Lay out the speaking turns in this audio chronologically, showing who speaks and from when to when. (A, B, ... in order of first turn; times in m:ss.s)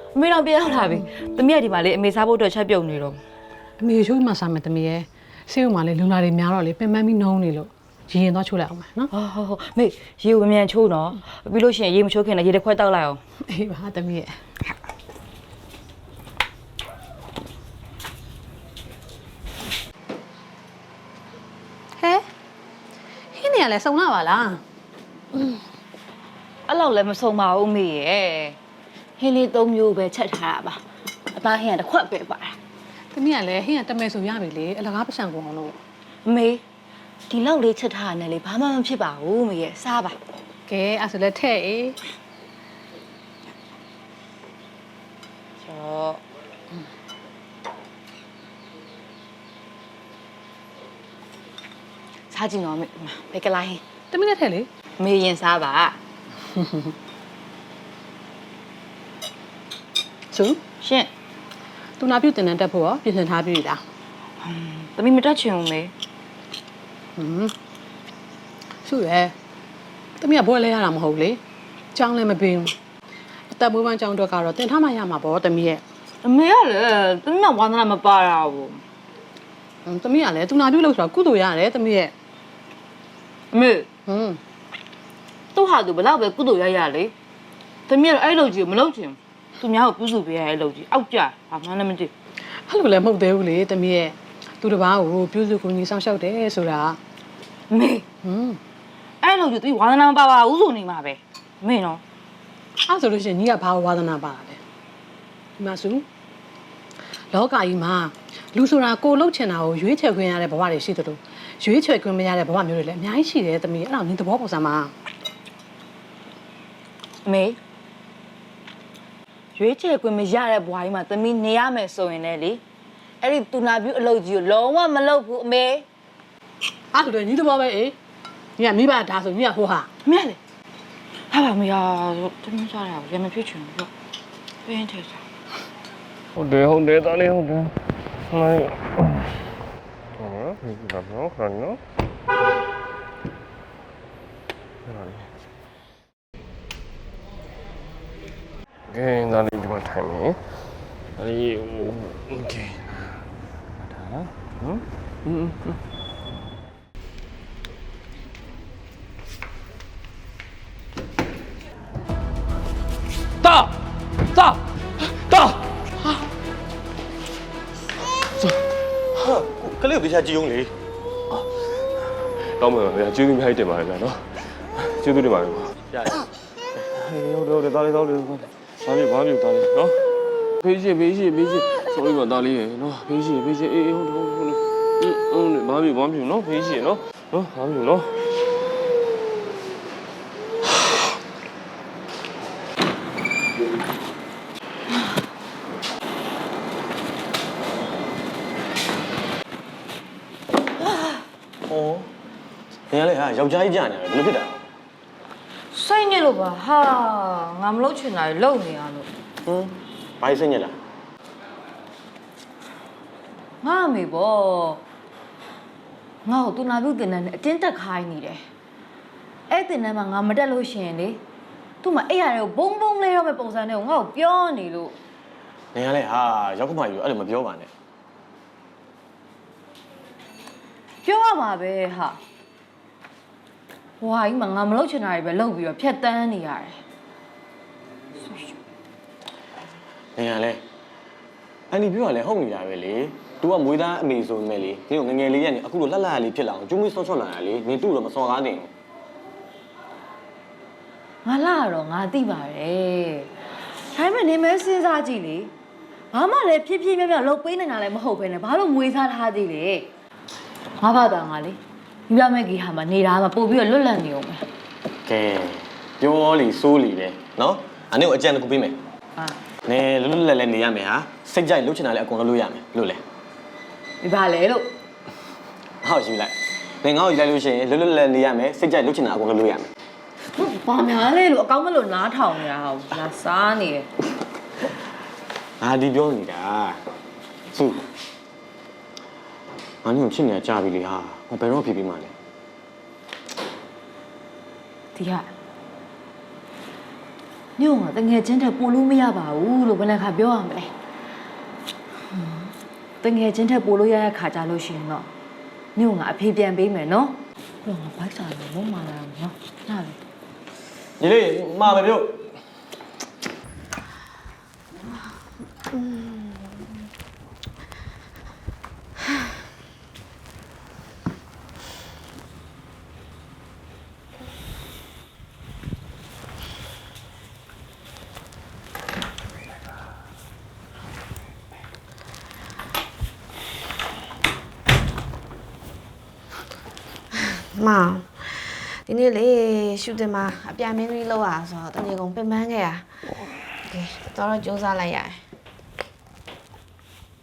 0:00.1-0:03.2 A
0:03.8-0:09.1 B
0:09.1-0:13.2 A
0:13.5-0:14.4 B
0:22.0-0:22.2 B
0:23.3-0:24.6 B
0:26.7-0:28.6 A
0:29.2-0:32.6 A
0:33.1-0:35.8 B
0:36.2-0:36.6 A
0:37.3-0:40.2 A
0:40.7-0:42.0 B
0:45.6-0:46.2 A
0:52.3-0:53.8 A
0:54.1-0:54.7 B
0:55.0-0:56.0 A
0:56.6-0:56.9 B
1:00.3-1:00.6 B
1:00.8-1:01.1 A
1:02.0-1:03.8 B
1:04.4-1:05.9 A
1:07.2-1:07.5 B
1:08.8-1:09.3 B
1:10.2-1:11.4 B
1:11.9-1:12.7 B
1:13.5-1:15.8 B
1:16.2-1:18.8 A
1:19.8-1:22.1 B
1:23.5-1:23.9 A
1:24.1-1:24.4 B
1:25.5-1:27.1 A
1:27.9-1:32.1 A
1:32.7-1:37.0 B
1:37.7-1:38.0 A
1:38.2-1:38.6 B
1:39.2-1:42.0 A
1:42.9-1:44.6 B
1:45.6-1:46.0 B
1:47.3-1:54.9 B
1:57.2-1:57.6 A
1:59.5-2:02.6 A
2:03.2-2:05.8 A
2:06.9-2:07.9 B
2:08.6-2:09.9 B
2:10.0-2:10.4 A
2:11.3-2:13.9 A
2:14.6-2:15.2 A
2:16.4-2:17.7 C
2:18.3-2:19.4 C
2:20.2-2:21.8 C
2:24.8-2:25.3 C
2:28.9-2:30.5 C
2:31.2-2:33.2 C
2:33.9-2:35.8 C
2:43.4-2:43.7 C
2:44.3-2:45.6 C
2:49.2-2:50.7 D
2:52.5-2:54.2 C
2:54.7-2:55.7 C
2:57.0-3:00.0 C
3:00.6-3:08.2 C
3:20.8-3:21.2 A
3:21.7-3:22.1 D
3:22.9-3:24.6 D
3:25.7-3:29.1 A
3:29.4-3:30.7 D
3:33.6-3:34.8 A
3:36.2-3:38.4 A
3:39.5-3:41.2 A
3:41.8-3:45.0 A
3:45.7-3:47.7 D
3:51.0-3:52.2 A
3:54.0-3:56.8 A
4:00.2-4:00.6 D
4:01.7-4:08.7 D
4:11.2-4:13.3 A
4:13.9-4:15.5 A
4:16.1-4:19.9 A
4:20.8-4:24.4 A
4:25.0-4:28.8 D
4:29.6-4:33.0 D
4:34.0-4:34.7 A
4:35.8-4:39.7 D
4:40.3-4:43.9 A
4:45.6-4:46.8 D
4:47.5-4:47.8 D
4:49.8-4:52.1 D
4:54.9-4:55.3 A
4:57.6-5:00.7 A
5:02.1-5:05.1 A
5:05.8-5:10.0 A
5:11.0-5:12.2 D
5:15.7-5:16.6 E
5:37.5-5:42.9 E
5:43.7-5:45.2 E